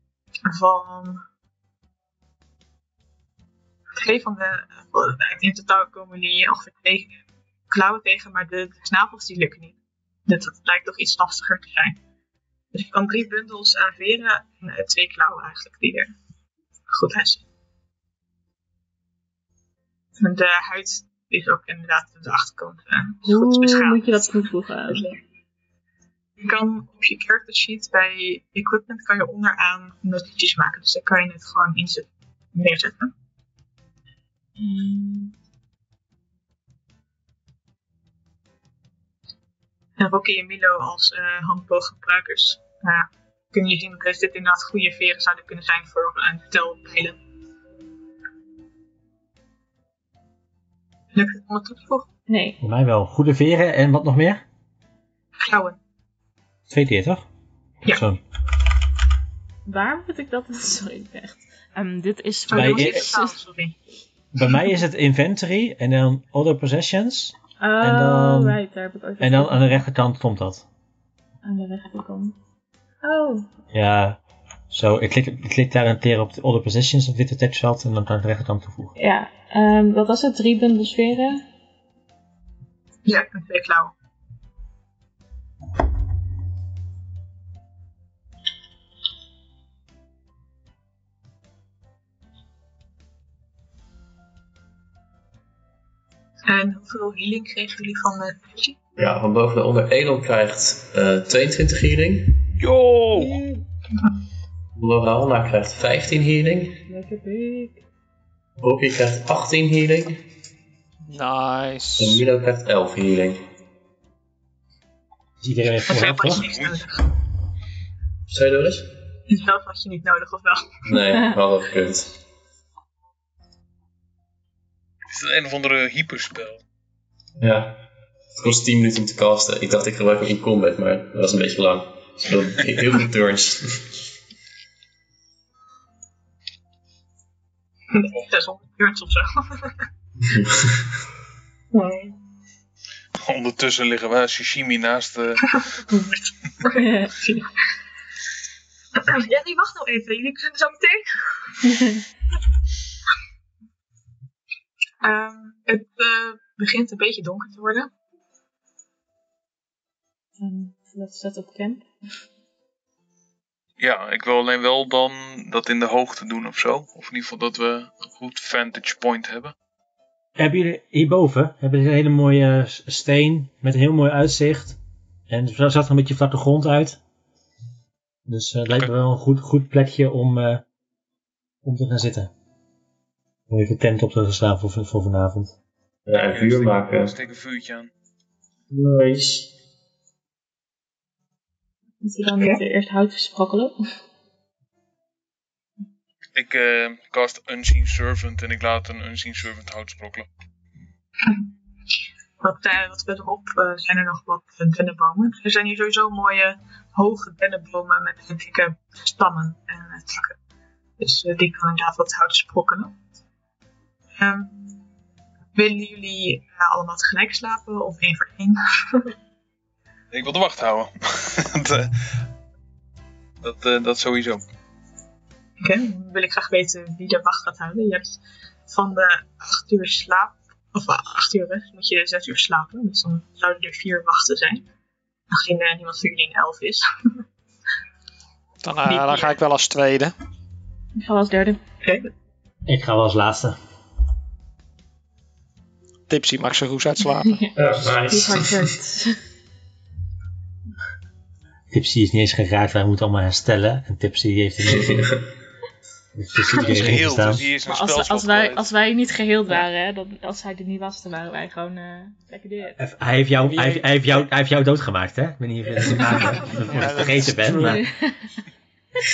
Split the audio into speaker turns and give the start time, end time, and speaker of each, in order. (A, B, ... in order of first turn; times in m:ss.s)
0:00.5-0:01.2 A
0:04.0-0:12.0 A
0:12.7-0:16.1 A
0:16.9-0:17.4 A
0:20.2-0:25.2 A
0:23.3-0:25.1 B
0:26.4-0:33.1 A
0:34.6-0:35.3 B
0:40.0-0:47.2 A
0:51.1-0:52.1 A
0:52.3-0:52.6 B
0:52.6-0:54.4 C
0:55.4-0:55.8 A
0:56.7-0:57.3 C
0:57.8-0:58.2 C
0:59.7-1:03.4 B
1:02.5-1:03.8 A
1:02.5-1:03.1 C
1:04.3-1:08.6 C
1:07.6-1:09.8 B
1:09.2-1:10.7 C
1:11.4-1:12.4 B
1:13.0-1:13.5 B
1:13.7-1:18.9 C
1:19.0-1:21.4 B
1:23.0-1:23.9 A
1:36.5-1:38.8 A
1:39.0-1:42.4 D
1:42.6-1:43.4 E
1:43.2-1:43.6 B
1:44.8-1:46.8 D
1:46.9-1:47.8 B
1:48.6-1:50.2 D
1:51.1-1:52.2 F
1:52.0-1:53.4 D
1:55.4-1:56.5 C
1:55.8-1:57.0 A
1:56.3-1:56.8 E
1:58.3-1:58.9 D
1:59.3-2:00.7 A
2:00.9-2:02.1 D
2:05.1-2:06.6 E
2:07.4-2:07.8 D
2:08.3-2:13.9 D
2:17.9-2:19.8 A
2:20.2-2:20.9 D
2:21.7-2:22.2 A
2:23.2-2:25.5 E
2:25.5-2:27.5 A
2:26.7-2:27.2 B
2:29.0-2:31.7 A
2:35.0-2:37.9 A
2:40.4-2:41.8 B
2:43.8-2:49.5 E
2:50.4-2:54.8 C
2:55.3-2:57.0 C
2:58.3-3:00.6 C
3:01.6-3:02.3 C
3:03.5-3:05.5 C
3:06.1-3:07.1 D
3:06.3-3:07.9 E
3:08.7-3:09.5 D
3:12.0-3:13.8 B
3:16.4-3:20.3 E
3:22.4-3:30.4 A
3:31.0-3:33.0 A
3:34.2-3:34.8 A
3:35.6-3:39.1 A
3:40.1-3:42.1 E
3:43.4-3:44.4 E
3:45.6-3:54.6 A
3:55.3-3:56.8 A
3:58.6-4:00.1 F
3:58.8-3:59.4 A
4:01.0-4:01.6 B
4:01.8-4:02.1 A
4:02.7-4:03.6 C
4:06.1-4:07.4 F
4:07.2-4:07.5 B
4:07.6-4:08.7 D
4:08.1-4:09.2 B
4:11.7-4:15.2 C
4:14.7-4:15.2 D
4:16.1-4:17.5 C
4:16.5-4:18.7 E
4:17.6-4:22.8 B
4:22.8-4:27.8 C
4:23.5-4:23.8 F
4:26.5-4:27.8 F
4:27.6-4:28.2 B